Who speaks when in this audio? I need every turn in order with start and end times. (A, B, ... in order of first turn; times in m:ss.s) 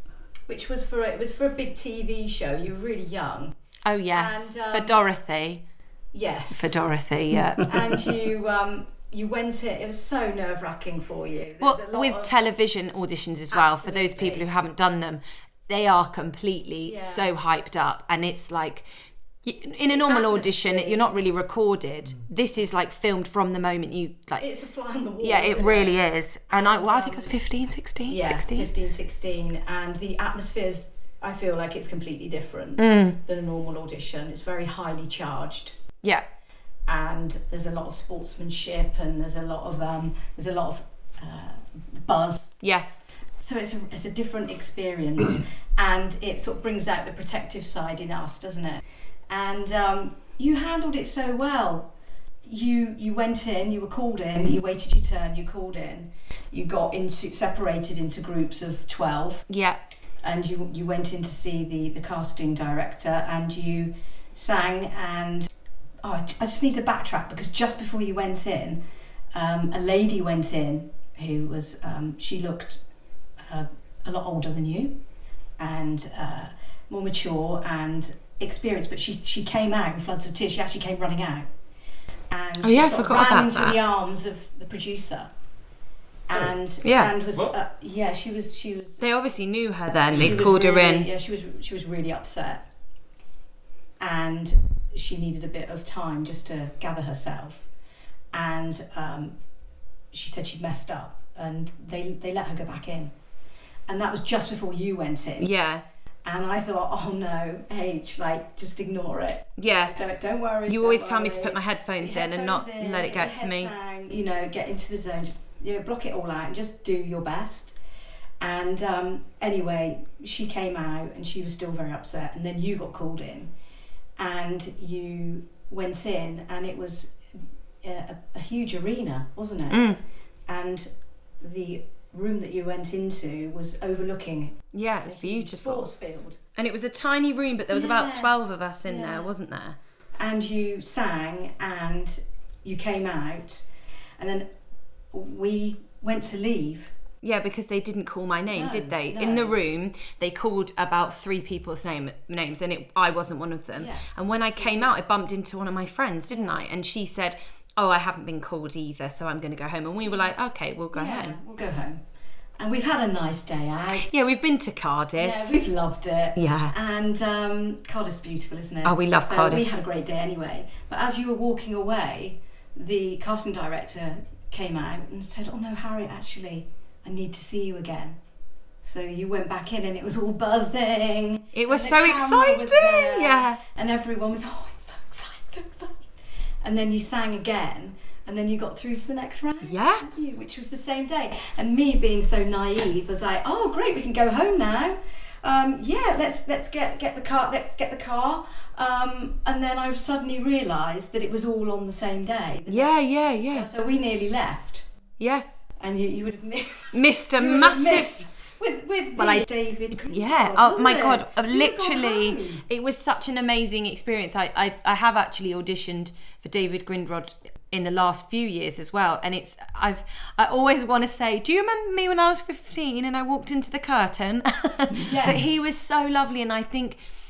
0:00.5-0:03.5 A
0:03.8-0:05.6 B
0:04.1-0:05.0 A
0:06.1-0:06.8 A
0:06.5-0:07.7 B
0:07.6-0:12.3 A
0:11.6-0:18.9 B
0:13.5-0:14.5 A
0:16.8-0:17.3 A
0:19.4-0:24.5 B
0:19.9-0:21.1 A
0:24.4-0:26.0 A
0:25.2-0:28.7 B
0:26.5-0:27.4 A
0:28.1-0:35.7 A
0:32.8-0:33.2 B
0:36.9-0:42.5 A
0:42.6-0:42.9 B
0:43.4-0:51.9 A
0:52.4-0:59.5 A
0:59.5-0:59.8 B
1:00.2-1:05.5 A
1:06.0-1:08.8 A
1:09.3-1:12.8 A
1:13.4-1:15.0 A
1:15.6-1:21.5 A
1:22.3-1:25.3 A
1:22.6-1:23.8 B
1:26.3-1:29.0 A
1:26.8-1:27.1 B
1:29.0-1:31.1 B
1:30.1-1:32.7 A
1:34.0-1:37.7 A
1:38.3-1:39.4 A
1:40.1-1:43.1 A
1:43.9-1:45.5 A
1:45.4-1:45.8 B
1:46.2-1:57.7 A
1:49.6-1:50.0 B
1:50.7-1:53.7 B
1:58.4-2:03.5 A
2:04.2-2:07.1 A
2:07.8-2:09.9 A
2:09.7-2:10.0 B
2:10.5-2:10.9 A
2:11.4-2:16.4 A
2:14.7-2:15.9 B
2:16.6-2:19.8 B
2:17.7-2:19.3 A
2:20.2-2:23.6 A
2:24.2-2:24.5 A
2:25.1-2:26.9 A
2:27.2-2:41.4 B
2:28.5-2:29.6 A
2:33.8-2:34.9 A
2:40.9-2:42.0 A
2:42.6-2:44.1 A
2:44.0-2:45.6 B
2:45.2-2:58.2 A
2:46.4-2:46.7 B
2:48.8-2:49.7 B
2:58.8-3:06.1 A
3:01.5-3:03.6 B
3:06.6-3:24.9 A
3:09.6-3:10.0 B
3:22.7-3:23.7 B
3:25.2-3:25.4 B
3:25.8-3:32.6 A
3:26.9-3:28.3 B
3:29.2-3:29.5 B
3:30.0-3:47.0 B
3:45.0-3:45.4 A